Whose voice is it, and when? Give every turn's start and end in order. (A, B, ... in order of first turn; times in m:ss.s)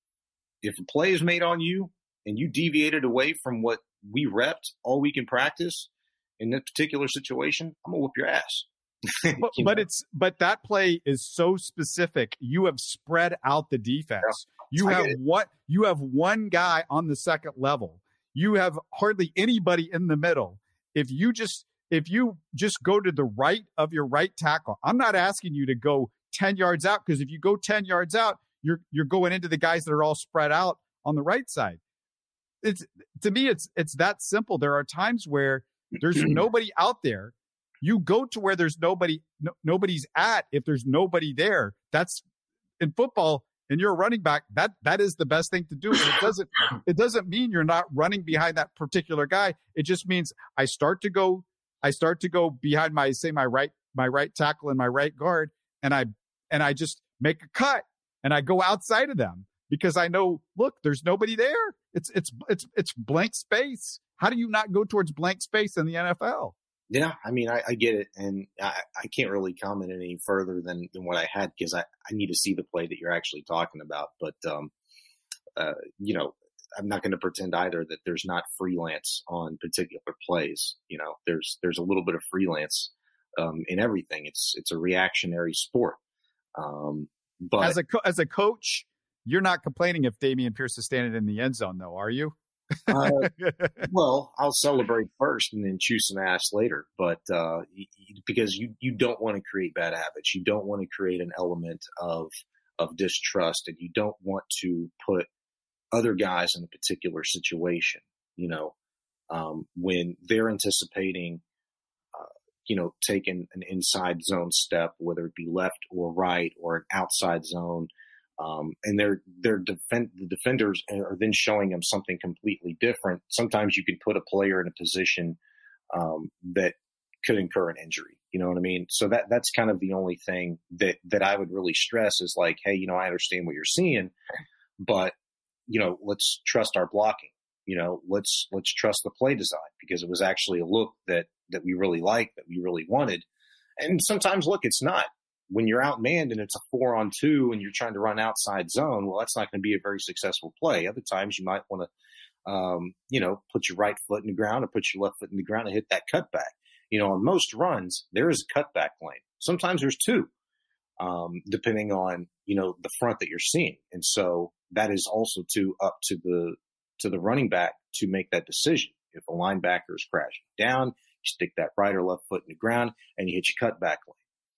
0:00.6-0:09.8 A
0:09.4-0:31.8 B
0:14.8-0:15.1 A
0:32.6-0:42.2 B
0:42.8-1:06.5 B
1:06.9-1:14.7 A
1:15.6-1:26.0 A
1:26.6-1:27.8 A
1:27.6-1:32.3 B
1:32.8-1:33.9 B
1:32.9-1:33.3 A
1:33.8-1:45.3 A
1:45.9-1:48.7 A
1:49.3-1:51.4 A
1:52.1-2:05.4 A
2:05.9-2:14.1 A
2:14.8-2:15.1 A
2:15.7-2:23.2 A
2:23.8-2:31.9 A
2:32.4-2:40.3 A
2:41.0-2:54.2 A